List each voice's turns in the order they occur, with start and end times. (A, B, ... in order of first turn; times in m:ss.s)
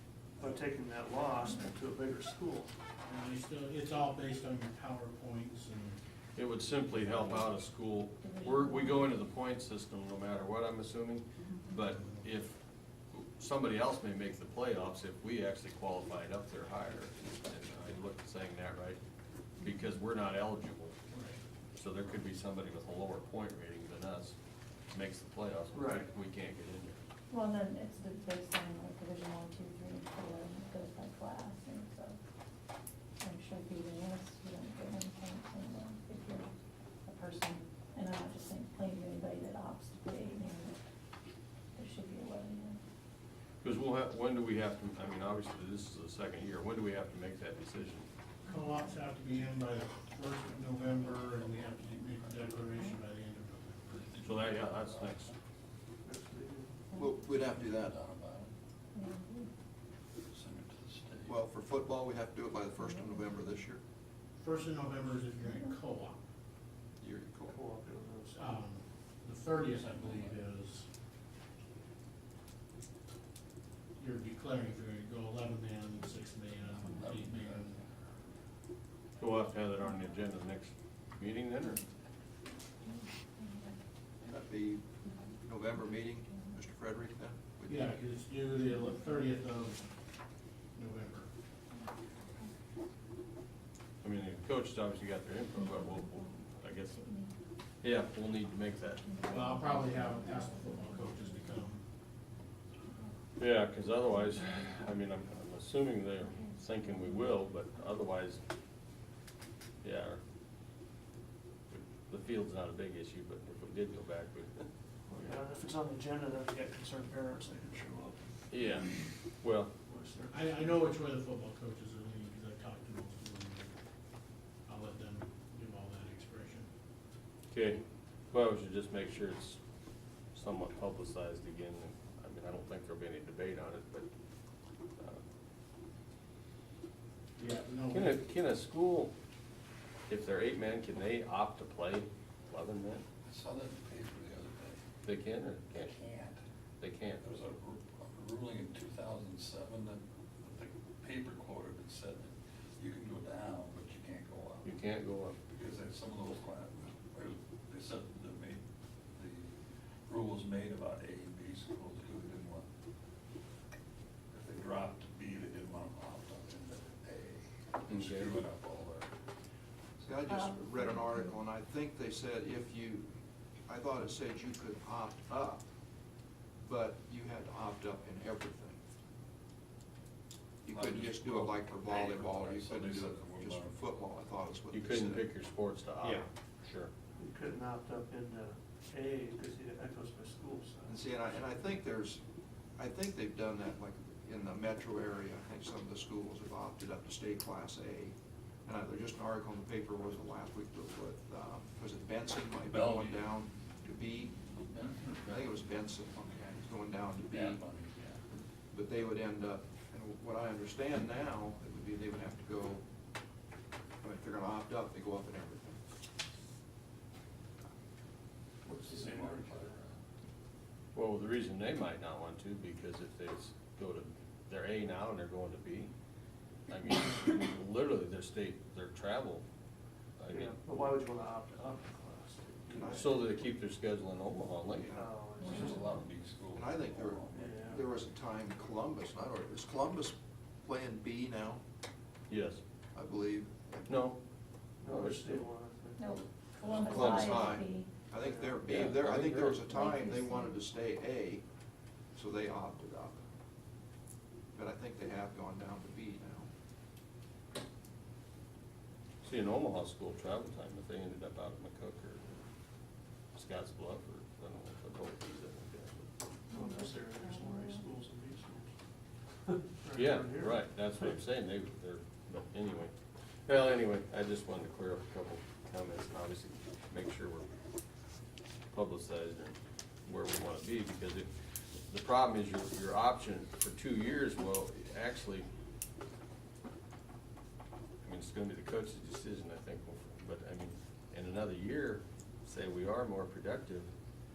0:00.4-0:02.7 A
0:03.0-0:06.0 B
0:06.4-0:12.6 C
0:07.0-0:07.4 B
0:08.2-0:09.2 D
0:11.9-0:12.2 B
0:13.1-0:19.0 C
0:19.6-0:21.0 C
0:21.1-0:21.4 B
0:21.7-0:24.3 C
0:24.9-0:27.0 C
0:25.7-0:26.1 A
0:27.3-0:32.2 D
0:33.2-0:36.5 D
0:37.0-0:40.8 D
0:41.7-0:42.8 D
0:43.6-0:48.1 C
0:48.4-0:54.1 B
0:54.1-0:55.3 E
0:54.2-0:55.3 C
0:56.0-0:56.7 A
0:56.9-0:57.2 D
0:56.9-0:57.9 F
0:57.3-0:58.5 E
0:58.9-0:59.5 D
1:00.3-1:01.4 E
1:01.3-1:03.8 F
1:04.4-1:06.2 B
1:07.0-1:07.6 F
1:07.5-1:08.6 A
1:08.4-1:10.9 B
1:09.7-1:10.4 E
1:14.0-1:17.8 B
1:16.9-1:17.8 E
1:19.2-1:21.8 C
1:22.8-1:23.8 D
1:24.2-1:24.8 F
1:25.4-1:27.9 F
1:27.7-1:29.9 B
1:30.7-1:31.3 B
1:31.7-1:32.5 D
1:34.0-1:37.0 C
1:35.6-1:37.3 D
1:37.8-1:39.0 C
1:39.0-1:41.4 D
1:39.3-1:41.8 B
1:43.4-1:48.4 C
1:49.8-1:50.2 C
1:51.7-1:54.6 C
1:55.1-1:58.2 A
1:58.5-1:59.7 C
1:59.9-2:00.8 A
2:00.3-2:03.7 B
2:04.6-2:06.7 B
2:07.5-2:07.8 C
2:08.3-2:09.6 C
2:10.3-2:14.1 C
2:17.4-2:18.2 B
2:17.9-2:19.1 C
2:20.1-2:23.0 C
2:23.2-2:24.8 E
2:25.0-2:26.0 C
2:25.7-2:26.4 E
2:26.8-2:27.2 C
2:27.2-2:34.8 E
2:34.6-2:35.4 C
2:35.5-2:38.6 E
2:39.2-2:39.5 E
2:40.1-2:42.6 E
2:44.3-2:49.1 E
2:47.9-2:48.4 C
2:50.0-2:53.1 F
2:50.3-2:51.3 D
2:53.6-2:55.7 F
2:56.6-2:58.8 F
3:00.6-3:05.2 F
3:00.7-3:03.9 E
3:04.7-3:06.9 C
3:07.2-3:11.0 A
3:10.9-3:12.2 F
3:12.8-3:18.1 F
3:18.6-3:24.4 F
3:22.6-3:23.4 E
3:24.7-3:25.5 E
3:25.2-3:27.6 F
3:26.2-3:26.6 E
3:27.3-3:28.2 E
3:28.7-3:32.8 F
3:34.0-3:35.8 F
3:38.6-3:39.8 A
3:38.7-3:39.9 E
3:40.9-3:45.9 C
3:46.7-3:49.4 C
3:50.2-3:50.5 C
3:50.3-3:53.3 A
3:52.7-3:53.2 F
3:52.9-3:54.9 C
3:54.8-3:55.8 A
3:55.4-3:55.8 D
3:55.4-3:57.7 E
3:56.5-4:01.6 F
3:57.3-3:57.8 A
4:02.3-4:02.6 C
4:02.9-4:03.9 F
4:03.8-4:04.2 C
4:04.8-4:06.1 A
4:04.8-4:05.5 C
4:06.0-4:07.9 D
4:06.6-4:11.4 F
4:06.8-4:07.3 C
4:08.2-4:08.6 A
4:08.6-4:09.8 C
4:09.7-4:10.5 D
4:12.1-4:13.2 F
4:14.5-4:16.5 F
4:19.2-4:22.4 C
4:23.3-4:26.1 C
4:26.5-4:27.8 D
4:26.5-4:28.7 A
4:29.5-4:31.1 A
4:29.9-4:32.9 C
4:33.4-4:37.4 C
4:38.7-4:41.3 C
4:41.9-4:45.5 C
4:48.0-4:53.9 C